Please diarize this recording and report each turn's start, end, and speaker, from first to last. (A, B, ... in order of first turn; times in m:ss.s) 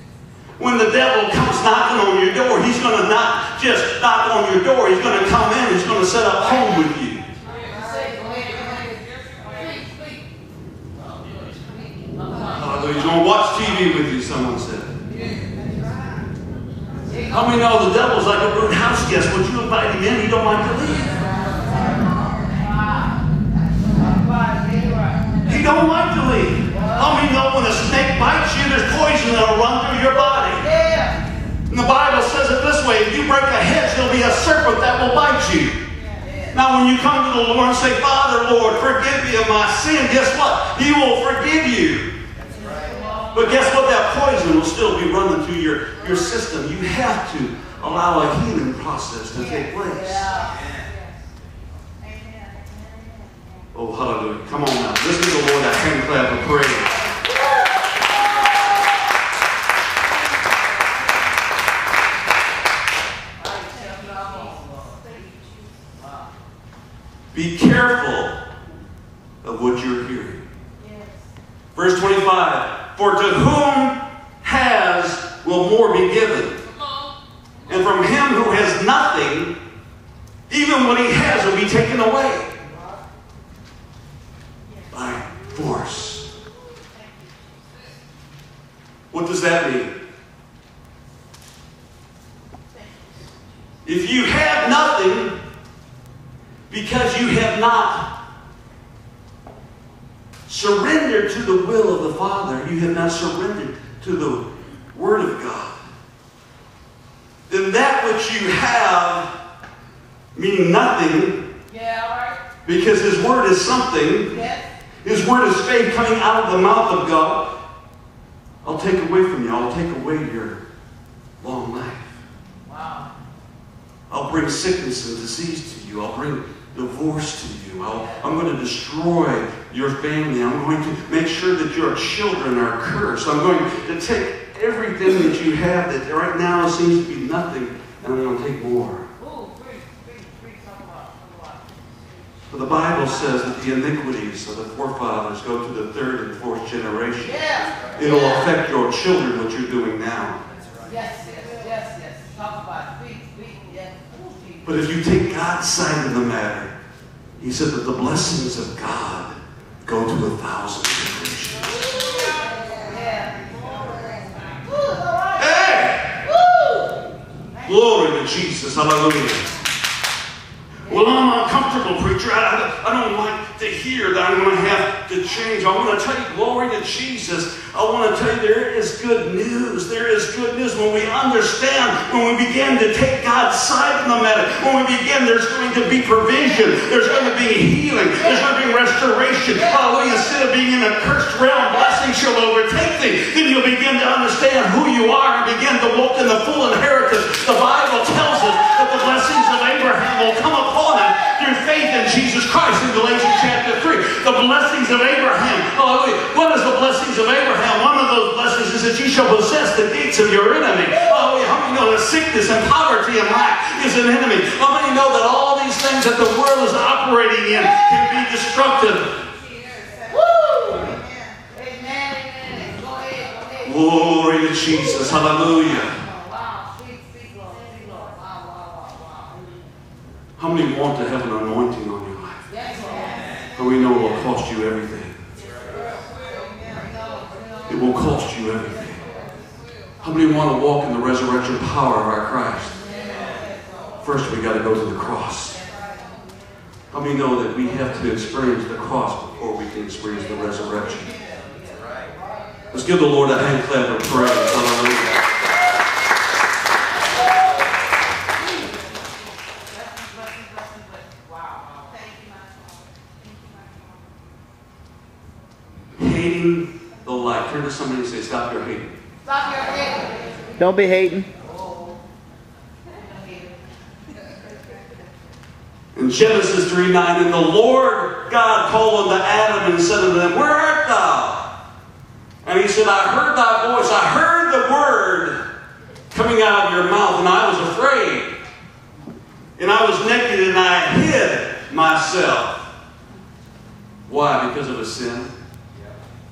0:00.6-0:07.2 A
0:07.6-0:10.2 B
0:11.0-0:13.1 B
0:12.5-0:14.9 A
0:17.3-0:21.1 A
0:22.6-0:23.2 B
0:23.9-0:25.4 B
0:25.4-0:30.7 A
0:26.8-0:27.1 B
0:30.6-0:31.2 B
0:31.7-0:35.8 A
0:36.1-0:36.5 B
0:36.5-0:42.1 A
0:42.7-0:43.6 B
0:43.3-0:50.3 A
0:49.8-0:50.6 B
0:53.7-0:57.0 A
1:03.4-1:06.3 B
1:07.3-1:08.4 A
1:09.4-1:10.5 A
1:11.8-1:16.6 A
1:17.7-1:19.6 A
1:20.5-1:22.5 A
1:24.9-1:26.3 A
1:29.1-1:30.0 A
1:33.8-1:35.4 A
1:36.7-1:38.2 A
1:40.5-1:45.8 A
1:47.5-1:49.4 A
1:50.3-1:51.5 A
1:51.7-1:52.4 B
1:52.6-1:54.4 A
1:54.3-1:54.6 B
1:55.0-1:57.6 A
1:58.6-2:00.6 A
2:01.4-2:02.2 A
2:02.7-2:03.1 B
2:04.1-2:19.1 A
2:19.2-2:21.9 B
2:22.5-2:30.4 A
2:27.2-2:28.5 B
2:30.8-2:34.8 B
2:34.6-2:36.7 A
2:37.4-2:41.9 A
2:42.7-2:47.0 B
2:45.4-2:46.2 A
2:47.6-2:49.6 A
2:50.9-3:39.2 A
3:39.8-3:43.9 B
3:43.6-3:46.0 A
3:44.8-3:49.4 B
3:50.4-3:52.4 A
3:52.5-3:53.3 B
3:53.6-3:55.2 A
3:56.2-3:57.6 B
3:57.7-3:59.0 A
4:00.0-4:02.8 A
4:02.9-4:03.6 B
4:04.0-4:05.6 A
4:06.9-4:11.1 A
4:11.0-4:12.4 B
4:12.7-4:15.3 A
4:19.6-4:22.2 B
4:26.0-4:29.0 A
4:29.2-4:32.0 B
4:32.9-4:33.6 B
4:36.0-4:41.5 A
4:42.4-4:45.4 A
4:46.1-4:48.3 A
4:49.6-4:52.7 A
4:54.1-4:55.3 A